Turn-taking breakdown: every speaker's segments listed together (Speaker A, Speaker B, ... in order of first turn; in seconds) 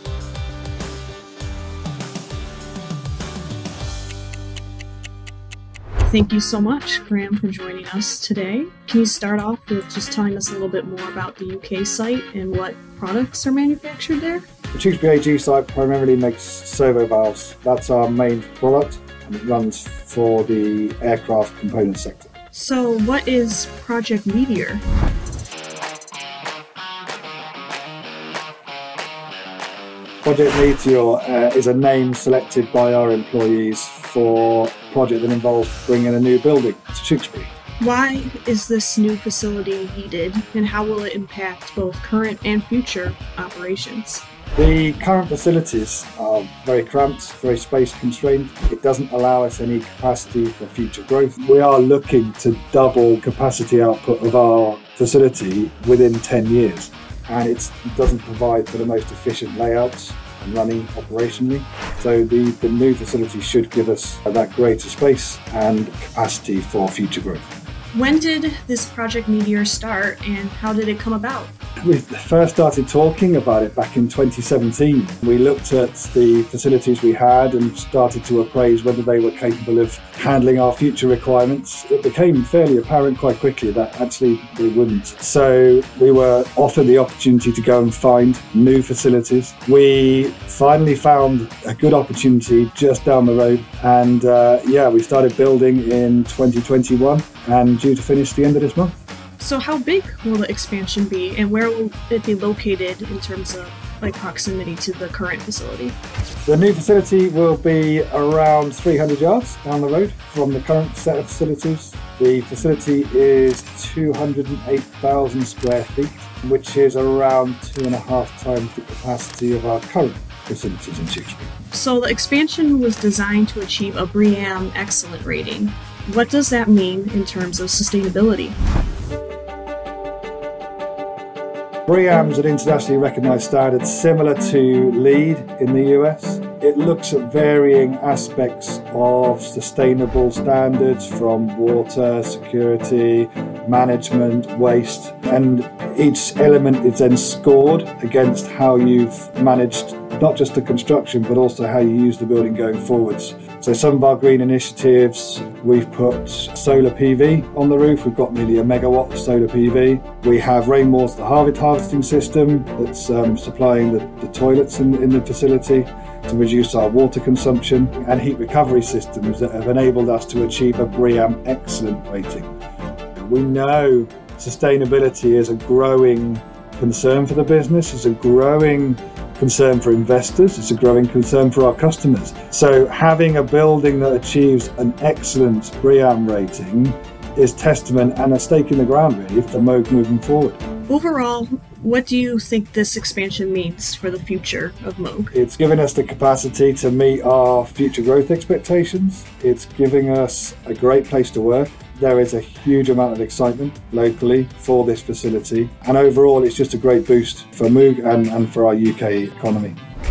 Speaker A: 6.0-14.4, 22.5-24.8, 37.8-44.2, 67.9-71.5, 99.4-106.0, 121.7-128.6, 190.9-195.3
Speaker B: 14.7-22.3, 30.2-37.5, 44.5-67.5, 71.8-98.9, 106.4-121.5, 131.9-172.5, 173.2-190.6, 195.3-209.8